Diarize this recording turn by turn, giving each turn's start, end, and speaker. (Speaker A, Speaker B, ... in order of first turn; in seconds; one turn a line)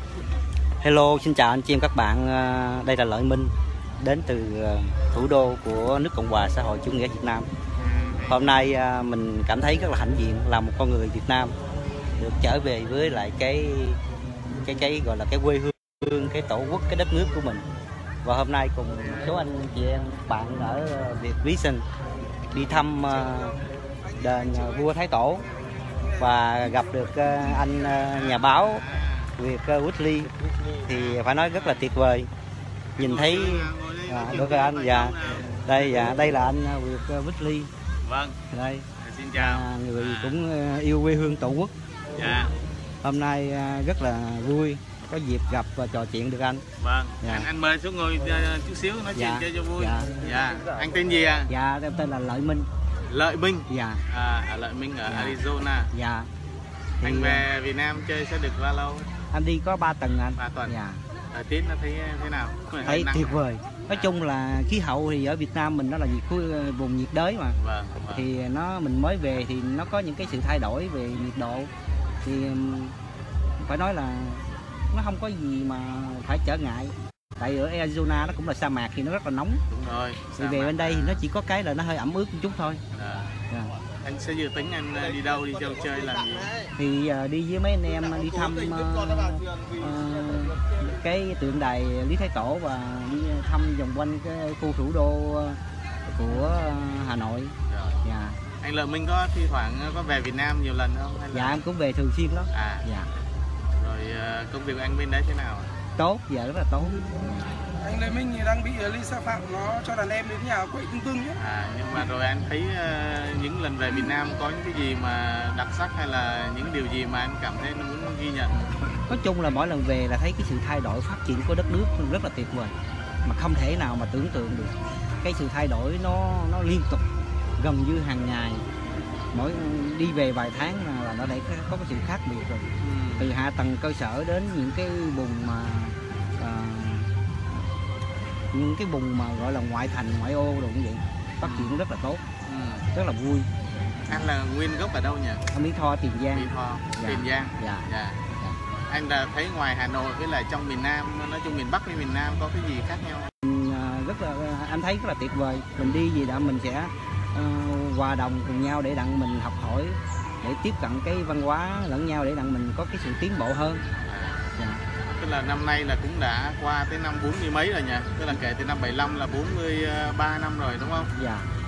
Speaker A: 0.8-7.5
Speaker B: 7.8-8.5
Speaker A: 8.3-11.5
Speaker A: 12.2-14.0
Speaker A: 14.6-17.6
Speaker A: 18.2-21.8
Speaker A: 22.5-23.6
Speaker C: 24.1-24.7
Speaker A: 24.2-25.4
Speaker A: 26.1-28.8
Speaker B: 28.1-29.3
Speaker A: 29.4-32.3
Speaker B: 30.9-31.9
Speaker B: 33.0-36.1
Speaker A: 33.0-37.7
Speaker B: 38.0-38.4
Speaker A: 38.5-41.7
Speaker B: 39.0-40.4
Speaker B: 42.1-42.5
Speaker A: 43.0-46.6
Speaker B: 46.8-51.5
Speaker A: 47.2-47.5
Speaker A: 49.1-50.1
Speaker A: 51.5-52.7
Speaker B: 53.1-55.9
Speaker A: 53.7-54.0
Speaker A: 55.1-55.4
Speaker A: 55.9-56.3
Speaker A: 57.0-57.4
Speaker B: 57.0-59.1
Speaker A: 59.3-61.0
Speaker B: 60.4-60.7
Speaker B: 61.3-64.1
Speaker A: 62.8-67.6
Speaker B: 67.5-68.3
Speaker A: 68.1-71.7
Speaker A: 72.2-73.0
Speaker A: 73.6-79.6
Speaker B: 79.7-81.2
Speaker A: 80.4-82.8
Speaker B: 82.9-83.4
Speaker B: 84.0-86.6
Speaker A: 86.7-98.4
Speaker B: 97.7-98.0
Speaker B: 98.6-101.6
Speaker A: 101.3-103.1
Speaker B: 102.5-102.8
Speaker B: 103.8-105.7
Speaker A: 106.0-107.1
Speaker C: 107.8-111.3
Speaker B: 111.4-118.7
Speaker A: 119.0-127.0
Speaker A: 127.6-128.6
Speaker A: 129.3-137.6
Speaker B: 132.8-133.3
Speaker A: 138.5-142.2
Speaker B: 141.4-141.8
Speaker B: 142.4-142.9
Speaker A: 142.9-143.5
Speaker B: 144.1-145.4
Speaker A: 145.5-148.6
Speaker B: 146.3-148.2
Speaker B: 148.9-153.3
Speaker A: 153.4-163.8
Speaker B: 164.0-164.4
Speaker A: 164.6-164.8
Speaker B: 165.0-171.1
Speaker A: 171.1-171.5